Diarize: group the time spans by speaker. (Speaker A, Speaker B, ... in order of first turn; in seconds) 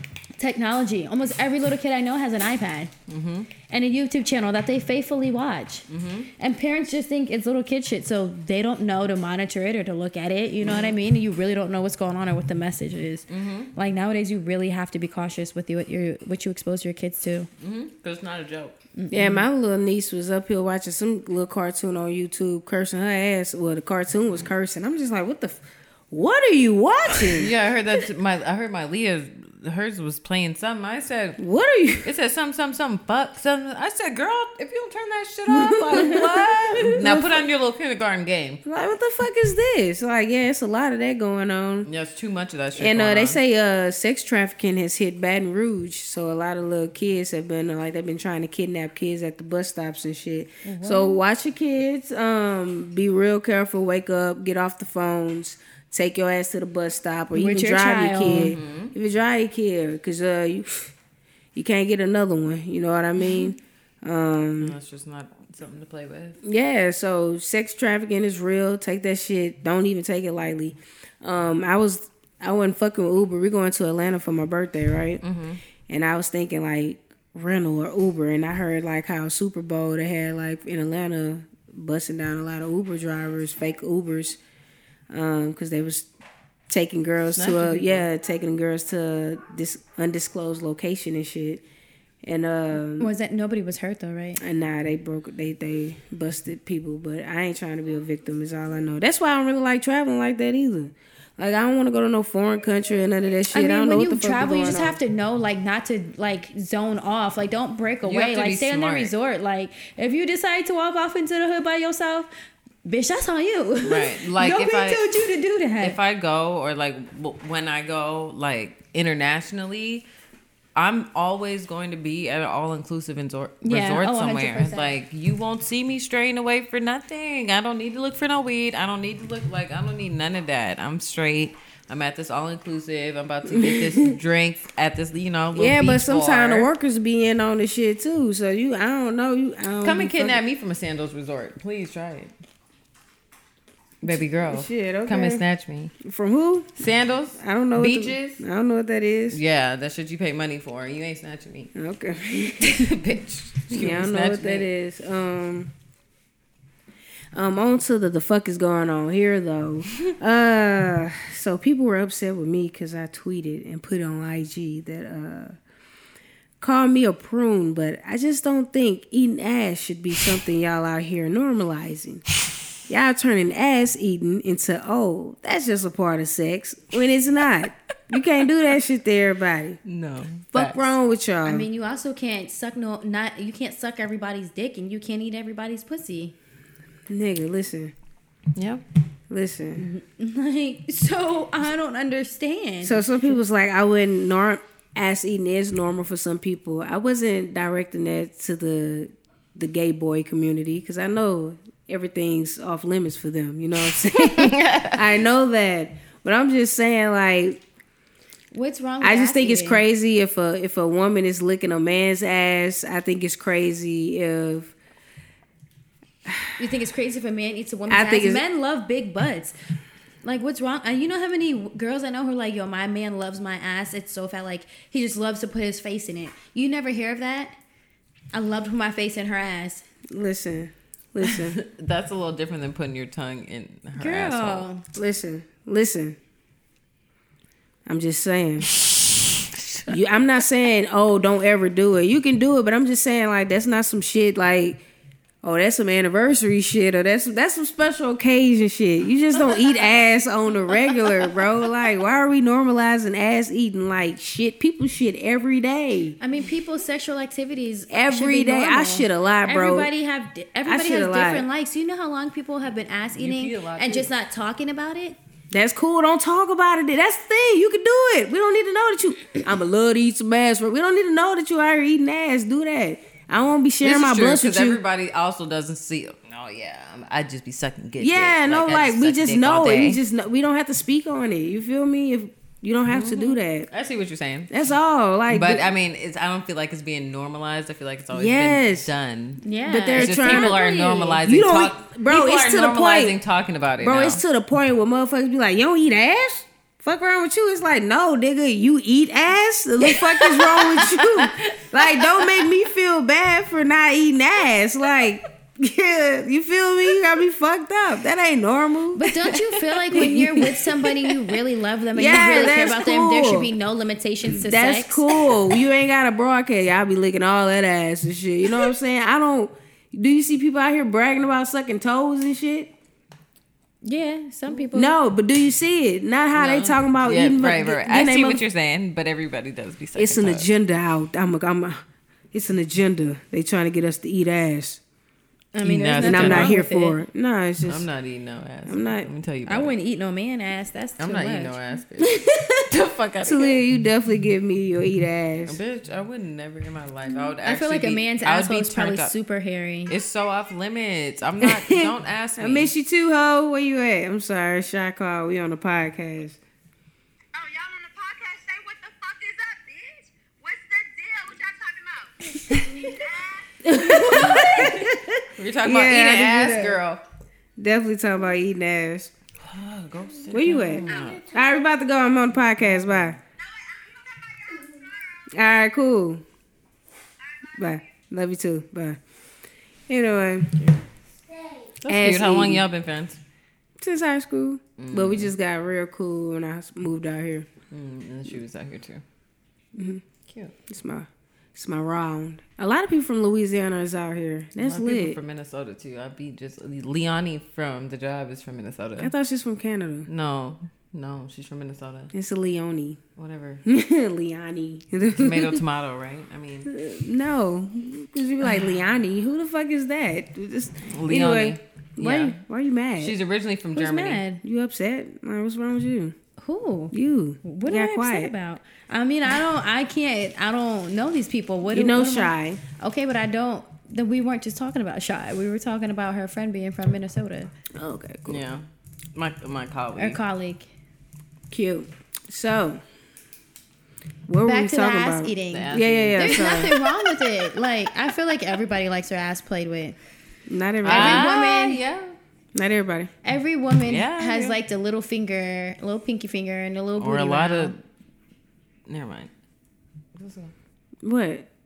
Speaker A: 0.4-2.9, 3.7-5.8, 6.4-17.5, 19.0-19.4, 50.6-51.2, 57.3-58.5, 93.0-94.4, 103.5-112.3, 112.8-116.0, 123.6-124.9, 181.4-186.3, 189.8-193.3, 208.5-209.8, 216.6-219.5, 220.2-227.6, 228.3-229.8, 234.0-234.8, 256.2-265.1, 289.4-291.2, 308.9-315.1, 323.8-324.9, 335.5-337.0, 339.4-341.6, 347.4-349.9, 413.7-414.4, 416.4-427.5, 430.0-430.7, 434.4-440.0, 440.8-441.8, 443.2-447.7
Speaker B: 3.1-3.5, 5.9-6.3, 10.6-10.9, 13.3-13.7, 17.6-18.8, 27.3-31.4, 32.0-38.6, 41.9-43.4, 58.3-58.9, 64.6-66.4, 75.2-75.6, 87.3-88.0, 108.0-109.1, 113.8-115.0, 115.8-120.0, 120.8-136.7, 139.8-142.3, 144.0-145.9, 146.8-148.4, 149.3-151.7, 152.6-154.7, 179.8-180.9, 188.5-188.8, 204.0-205.1, 231.2-234.7, 238.9-239.9, 263.1-264.1, 273.8-280.0, 282.9-284.5, 285.3-294.2, 299.8-302.5, 326.3-330.5, 335.6-336.6, 337.6-339.7, 341.0-343.6, 345.5-349.1, 349.9-352.7, 364.1-364.5, 365.4-367.0, 369.4-371.2, 381.8-383.2, 384.8-385.3, 387.7-389.0, 390.3-390.5, 394.6-399.1, 400.1-402.1, 403.1-403.6, 405.1-406.7, 410.9-412.4, 413.0-414.2, 428.2-428.6, 429.1-430.2, 435.5-436.8, 440.8-442.1, 443.8-444.6, 447.0-447.8, 448.9-449.3, 450.1-450.5
Speaker C: 19.1-27.5, 31.4-32.1, 35.5-37.5, 38.6-41.9, 42.8-60.9, 61.5-64.8, 66.4-75.2, 75.9-84.4, 85.1-86.1, 86.7-91.6, 92.2-93.1, 94.4-105.0, 133.4-134.1, 135.5-140.4, 144.1-145.4, 146.0-146.8, 147.4-149.4, 151.7-152.9, 153.7-155.7, 157.3-165.6, 166.6-172.2, 172.9-179.8, 180.5-181.7, 187.1-187.9, 189.3-189.9, 192.8-207.6, 209.0-214.7, 216.2-216.5, 217.9-218.4, 230.1-231.6, 234.9-236.2, 237.8-238.7, 239.9-244.8, 245.4-256.2, 257.9-259.9, 260.6-261.4, 265.5-274.8, 278.0-283.7, 284.5-285.6, 288.1-288.9, 289.7-290.6, 291.2-293.2, 293.8-309.1, 309.9-310.7, 311.9-313.5, 314.2-322.7, 324.7-328.4, 329.9-334.8, 336.0-337.9, 338.6-339.1, 343.2-345.6, 351.4-356.4, 363.6-366.8, 367.6-369.1, 370.3-373.2, 375.3-376.2, 377.6-379.0, 379.9-380.7, 381.9-382.6, 383.8-387.5, 389.7-390.0, 390.7-395.2, 399.0-400.1, 402.1-403.0, 403.6-405.6, 406.6-413.1, 414.4-416.1, 416.9-418.3, 421.6-422.6, 427.7-428.4, 431.5-432.8, 434.3-436.7, 440.5-441.3, 442.5-443.1, 451.0-451.5
Speaker D: 357.3-363.5, 370.9-371.4, 373.4-375.3, 377.2-377.9